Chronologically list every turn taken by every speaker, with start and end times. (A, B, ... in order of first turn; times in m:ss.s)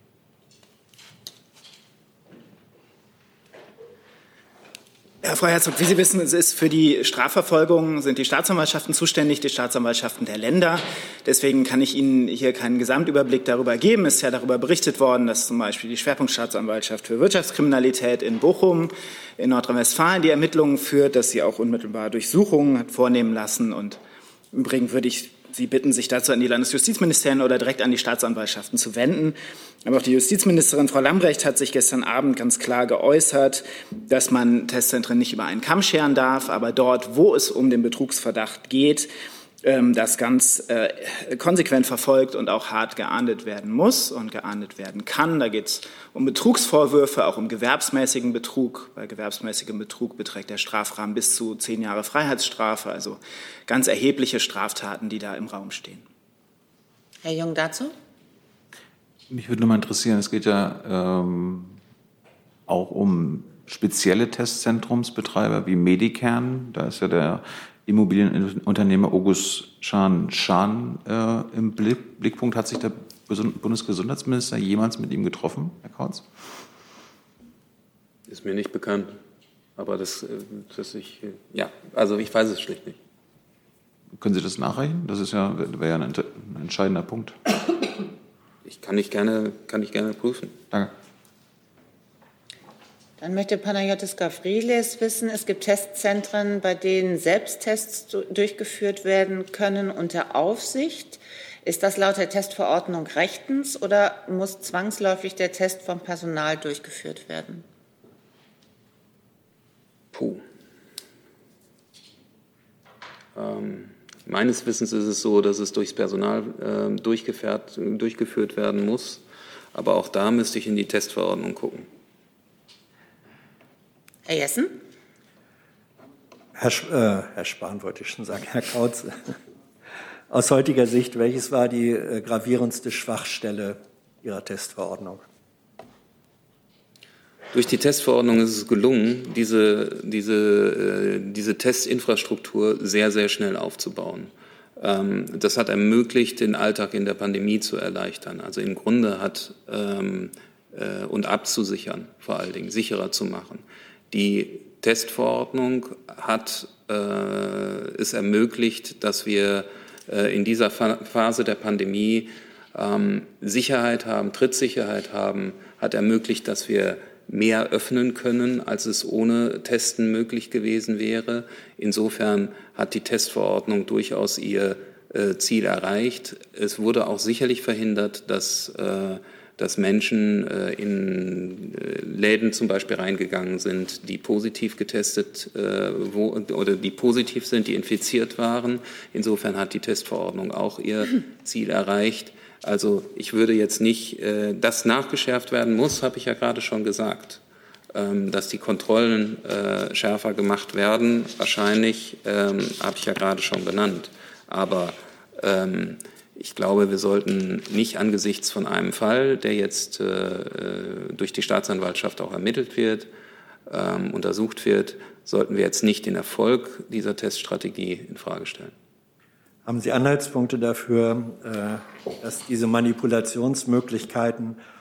0:05.2-0:24.0 A
0:24.5-0:39.1 A
0:39.6-0:56.0 A
0:57.2-0:57.9 B
0:59.3-1:01.8 C
1:02.7-1:16.2 C
1:18.3-1:19.2 D
1:19.8-1:23.0 D
1:24.2-1:27.4 C
1:28.6-1:30.6 D
1:33.2-1:47.6 B
1:50.1-1:50.4 D
1:53.3-1:59.2 D
1:59.7-2:01.9 D
2:04.2-2:04.7 B
2:06.5-2:09.4 E
2:10.3-2:15.2 E
2:17.5-3:17.4 D
3:17.9-3:33.1 D
3:33.7-3:38.7 D
3:39.6-3:44.6 E